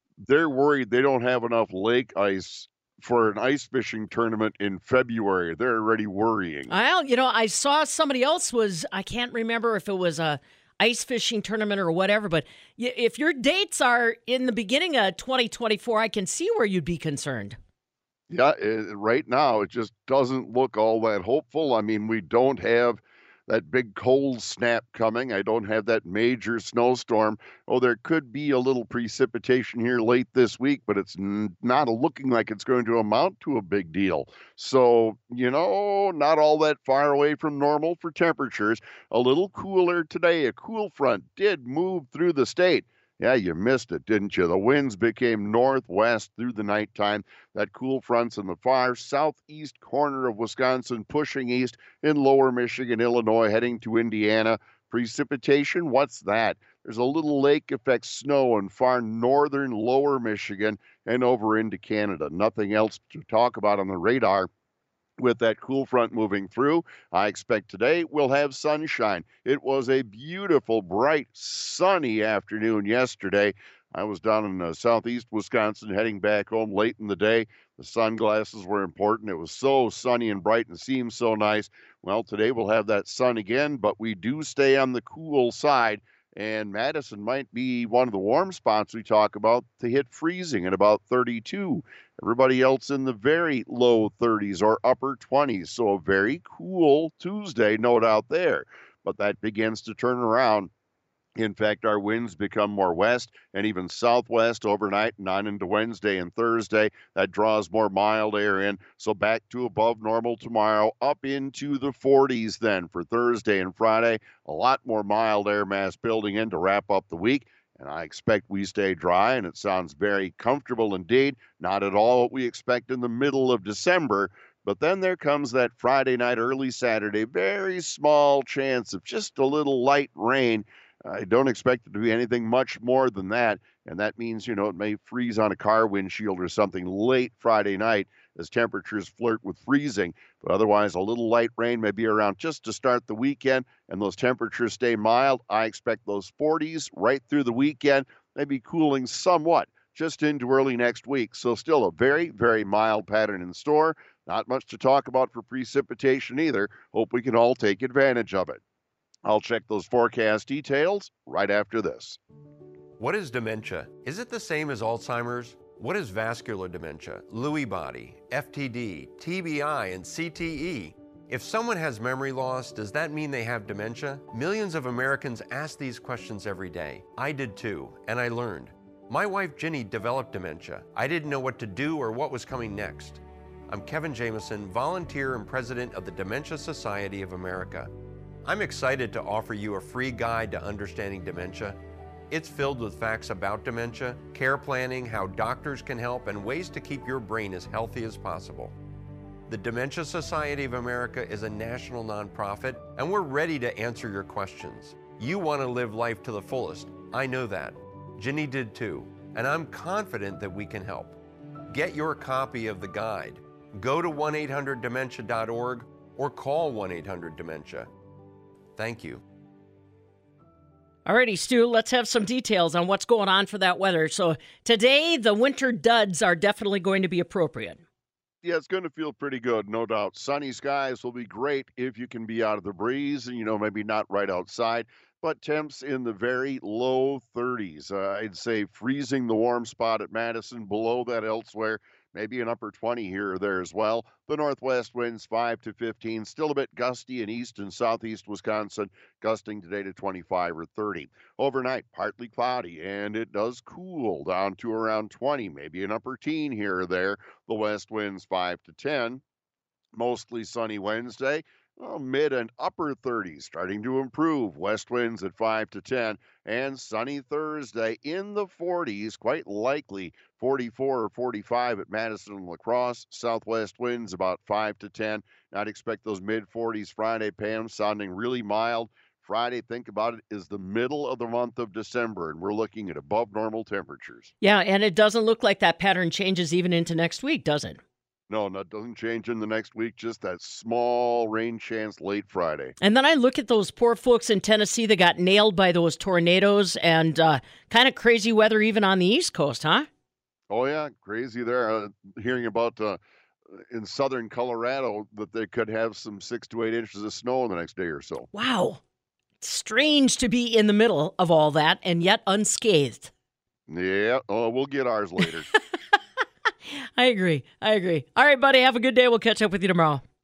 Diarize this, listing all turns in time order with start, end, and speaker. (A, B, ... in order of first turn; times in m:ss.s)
0:00.2-0:06.7 A
0:06.7-0:17.6 B
0:18.3-1:04.5 A
1:05.2-1:40.7 A
1:41.4-2:38.6 A
2:39.2-2:42.2 A
2:43.0-3:07.9 C
3:08.4-3:11.8 C
3:12.3-3:18.7 C
3:19.5-3:37.9 C
3:38.8-3:39.2 C
3:41.0-3:47.8 B
3:48.4-4:19.2 A
4:19.9-4:44.3 A
4:44.4-4:47.8 B
4:48.3-4:52.7 A
4:52.8-4:59.9 B
5:00.5-5:03.0 A
5:03.6-5:08.3 A
5:08.3-5:08.8 B
5:09.4-5:13.1 B
5:13.7-5:15.5 A
5:17.0-5:20.0 B